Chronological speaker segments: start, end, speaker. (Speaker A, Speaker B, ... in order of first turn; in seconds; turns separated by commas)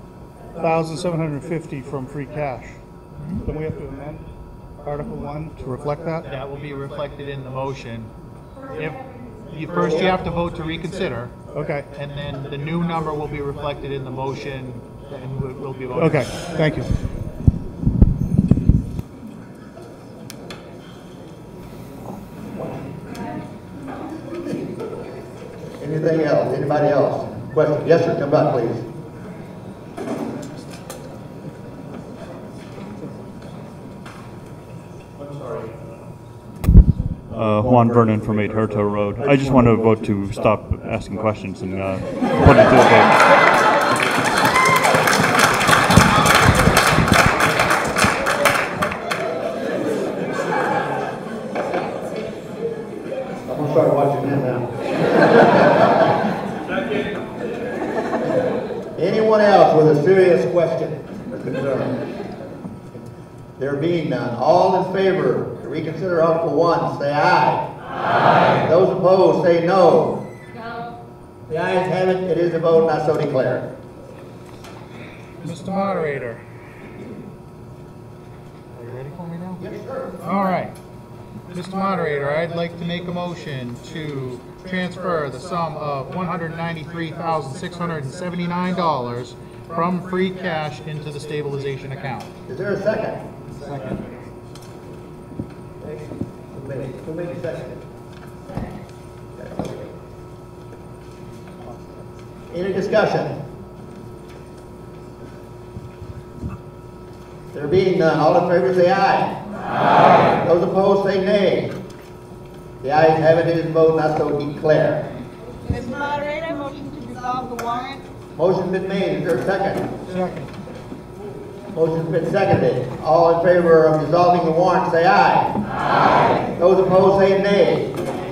Speaker A: 0.5-2.8, Speaker A: 3.4-4.3, Speaker A: 4.8-6.3, Speaker B: 6.3-8.1, Speaker B: 8.7-11.3, Speaker A: 11.5-11.9, Speaker B: 11.9-16.5, Speaker A: 15.9-16.9, Speaker C: 25.8-28.9, Speaker D: 35.2-35.8, Speaker D: 37.3-43.2, Speaker C: 53.5-56.0, Speaker C: 58.9-62.0, Speaker C: 63.6-67.7, Speaker C: 68.5-70.2, Speaker C: 71.5-73.7, Speaker B: 75.4-76.4, Speaker B: 78.7-79.6, Speaker C: 79.6-80.2, Speaker B: 80.2-80.7, Speaker B: 81.5-92.3, Speaker C: 92.5-93.2, Speaker C: 95.8-97.8, Speaker C: 99.4-99.9, Speaker C: 102.5-103.3, Speaker C: 107.5-109.4, Speaker C: 110.2-111.8, Speaker C: 112.8-115.1, Speaker E: 115.7-117.9, Speaker C: 118.3-119.9, Speaker C: 121.7-125.6, Speaker C: 126.4-128.0